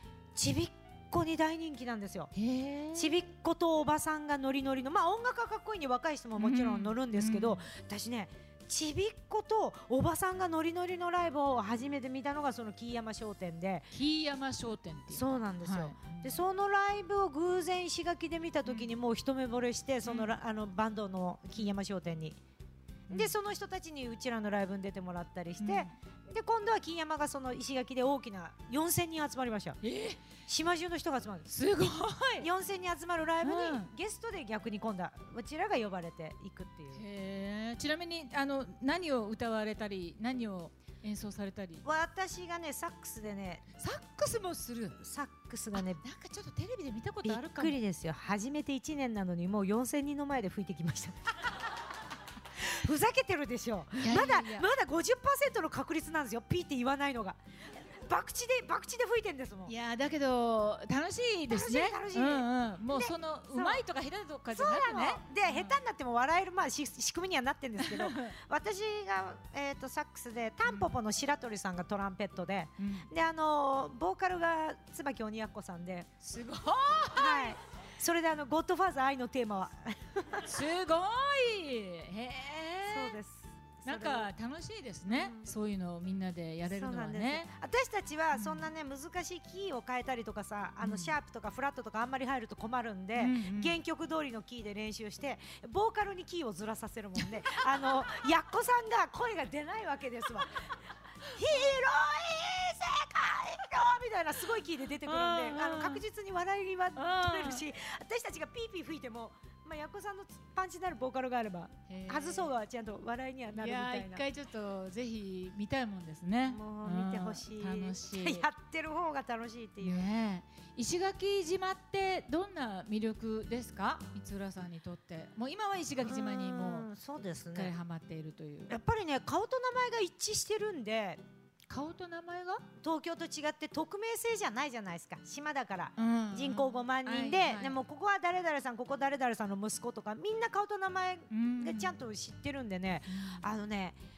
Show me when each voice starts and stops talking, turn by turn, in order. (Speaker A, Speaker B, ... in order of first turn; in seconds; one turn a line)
Speaker A: 0.3-2.3
Speaker B: 2.3-3.2
Speaker A: 2.9-13.9
Speaker B: 6.4-7.7
Speaker B: 13.9-16.4
Speaker A: 15.1-22.4
Speaker B: 18.6-18.9
Speaker B: 20.0-20.3
Speaker A: 23.1-29.8
Speaker B: 25.6-25.9
Speaker B: 29.8-30.3
Speaker A: 30.5-31.5
Speaker B: 31.4-32.5
Speaker A: 32.4-37.0
Speaker B: 33.4-33.9
Speaker B: 36.9-41.8
Speaker A: 41.8-43.6
Speaker B: 43.7-45.0
Speaker A: 45.0-46.0
Speaker B: 45.7-47.8
Speaker A: 47.2-51.6
Speaker A: 52.5-59.7
Speaker B: 53.9-54.7
Speaker B: 59.6-65.8
Speaker A: 61.5-63.8
Speaker A: 64.5-76.1
Speaker B: 67.8-68.3
Speaker B: 70.7-70.9
Speaker B: 72.8-73.1
Speaker B: 76.2-77.5
Speaker A: 77.1-80.5
Speaker B: 80.4-83.2
Speaker A: 82.9-84.3
Speaker B: 83.8-87.5
Speaker A: 85.1-85.5
Speaker A: 86.7-100.5
Speaker B: 88.3-88.7
Speaker B: 90.8-91.2
Speaker B: 93.1-93.8
Speaker A: 101.3-114.2
Speaker B: 105.0-106.0
Speaker B: 106.9-107.7
Speaker B: 111.9-112.5
Speaker B: 113.5-118.5
Speaker A: 116.5-120.1
Speaker B: 119.8-126.9
Speaker A: 126.0-127.7
Speaker B: 127.5-128.7
Speaker A: 128.7-131.2
Speaker B: 131.7-132.6
Speaker A: 132.8-144.0
Speaker B: 135.9-137.8
Speaker B: 141.3-142.0
Speaker B: 143.1-143.4